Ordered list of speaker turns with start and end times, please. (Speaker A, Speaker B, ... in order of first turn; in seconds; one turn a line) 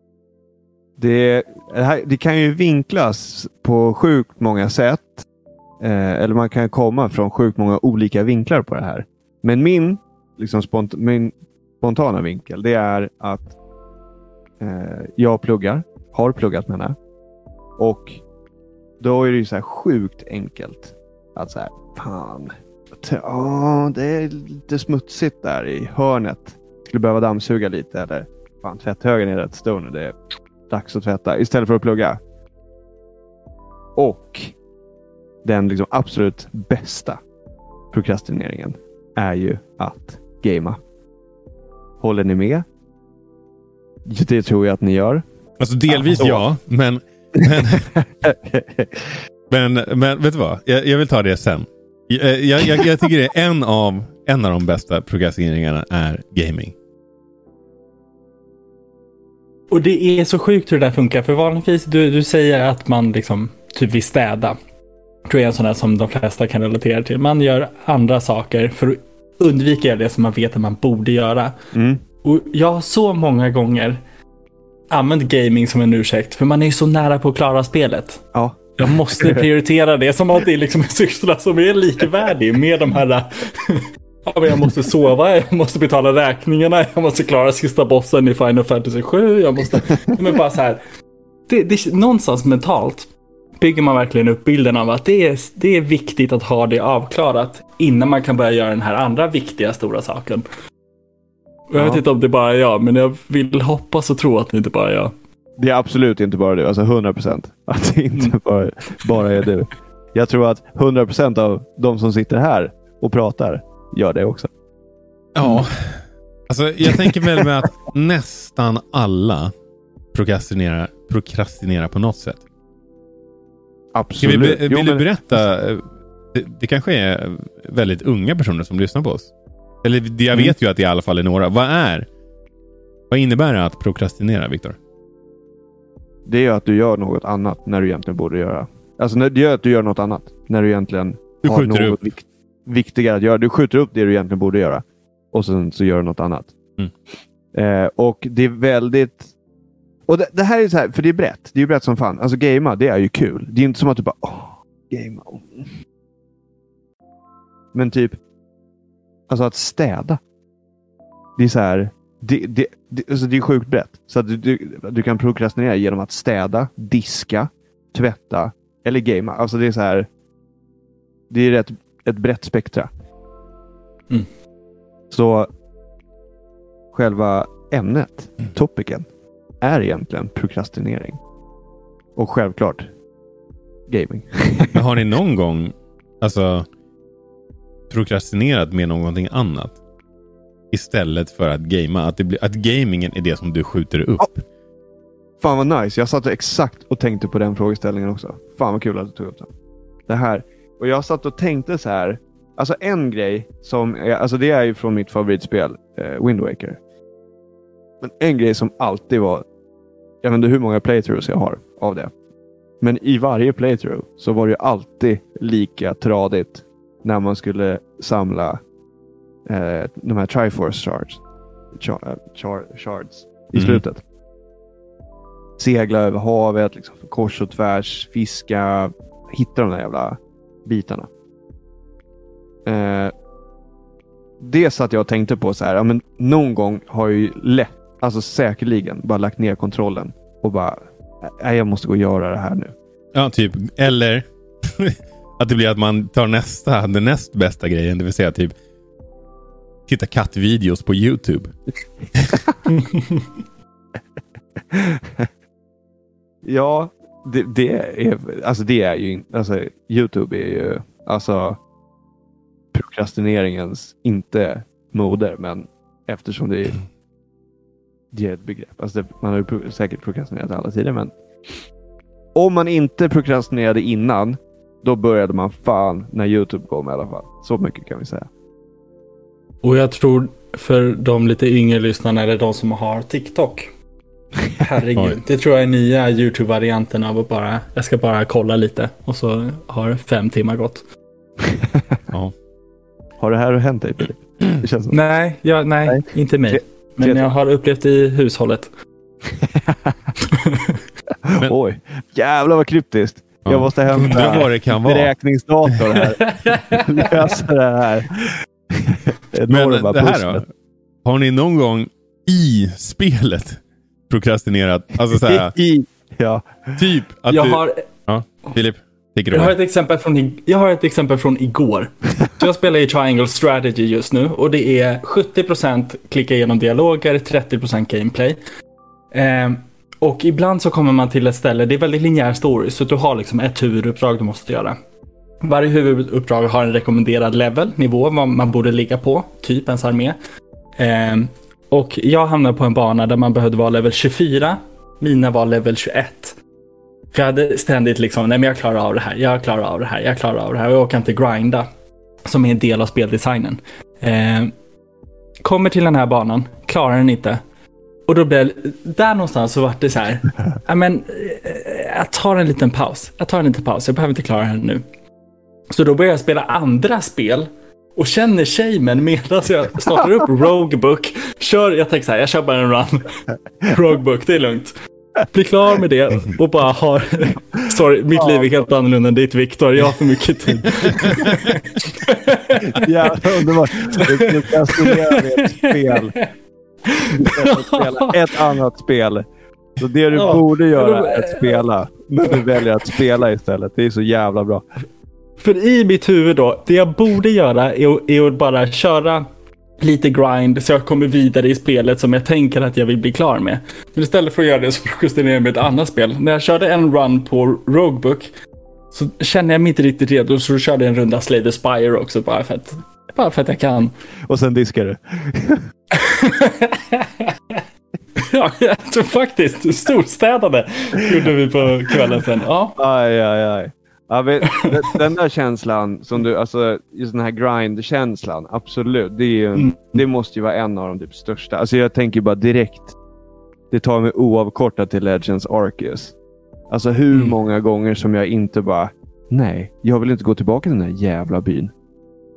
Speaker A: 1.0-5.2
Speaker A: 5.8-13.5
Speaker A: 14.6-16.9
Speaker A: 17.8-18.2
Speaker A: 19.0-30.1
Speaker A: 30.7-32.2
Speaker A: 34.0-34.5
Speaker A: 35.4-37.2
Speaker A: 37.9-40.8
Speaker A: 42.0-42.6
Speaker A: 44.1-45.2
Speaker B: 45.6-47.8
Speaker A: 45.9-46.5
Speaker A: 47.4-49.1
Speaker B: 49.5-56.7
Speaker C: 59.7-64.5
Speaker C: 65.3-71.5
Speaker A: 71.7-72.0
Speaker C: 72.2-74.0
Speaker C: 74.9-78.2
Speaker A: 78.3-79.4
Speaker C: 78.8-90.8
Speaker C: 91.5-100.5
Speaker C: 101.7-105.1
Speaker A: 101.8-102.0
Speaker A: 105.6-114.5
Speaker B: 115.3-119.5
Speaker A: 117.0-117.4
Speaker B: 120.1-122.4
Speaker A: 123.9-125.4
Speaker B: 124.2-129.3
Speaker B: 129.8-132.1
Speaker B: 133.1-134.8
Speaker A: 136.2-146.5
Speaker B: 141.4-142.0
Speaker A: 147.5-149.3
Speaker A: 150.1-155.7
Speaker A: 157.7-158.2
Speaker A: 159.3-160.2
Speaker A: 161.4-170.1
Speaker A: 171.3-172.9
Speaker A: 175.1-175.5
Speaker A: 176.9-179.1
Speaker A: 179.6-181.2
Speaker A: 182.2-182.9
Speaker A: 183.9-184.8
Speaker B: 184.7-186.6
Speaker B: 187.9-189.8
Speaker B: 190.7-194.4
Speaker A: 195.4-199.5
Speaker A: 200.1-206.8
Speaker A: 208.0-209.4
Speaker A: 210.2-212.1
Speaker A: 212.8-218.6
Speaker A: 219.5-221.2
Speaker A: 221.7-224.0
Speaker B: 223.5-223.8
Speaker A: 225.6-231.1
Speaker A: 232.7-233.1
Speaker A: 234.4-242.7
Speaker B: 243.1-248.5
Speaker B: 249.9-251.5
Speaker A: 254.7-255.2
Speaker A: 256.4-261.6
Speaker A: 262.7-266.8
Speaker A: 268.1-271.1
Speaker A: 272.4-278.3
Speaker C: 279.6-283.7
Speaker C: 284.6-290.8
Speaker A: 291.5-291.8
Speaker A: 293.2-295.0
Speaker C: 294.9-298.7
Speaker A: 295.9-297.3
Speaker A: 299.4-299.9
Speaker C: 300.3-300.7
Speaker A: 301.3-310.4
Speaker B: 303.4-305.1
Speaker C: 306.2-307.0
Speaker B: 309.5-310.4
Speaker B: 311.0-315.5
Speaker A: 315.2-316.8
Speaker B: 316.8-319.5
Speaker C: 317.3-317.8
Speaker C: 319.3-328.4
Speaker C: 329.1-334.7
Speaker C: 335.4-340.2
Speaker C: 340.8-346.4
Speaker C: 347.1-351.6
Speaker C: 352.2-354.5
Speaker C: 355.4-357.4
Speaker C: 358.1-364.8
Speaker C: 365.7-373.1
Speaker C: 373.6-374.7
Speaker C: 375.3-382.8
Speaker A: 378.2-378.5
Speaker A: 382.7-386.1
Speaker C: 383.9-384.3
Speaker C: 385.4-386.2
Speaker C: 386.9-388.4
Speaker A: 387.1-389.2
Speaker A: 389.8-394.6
Speaker C: 390.1-391.6
Speaker C: 395.4-399.2
Speaker C: 399.8-408.3
Speaker C: 408.9-413.9
Speaker A: 414.3-415.6
Speaker C: 416.0-417.6
Speaker C: 418.3-422.8
Speaker A: 422.8-432.9
Speaker C: 429.5-430.0
Speaker A: 433.7-436.1
Speaker A: 436.7-441.7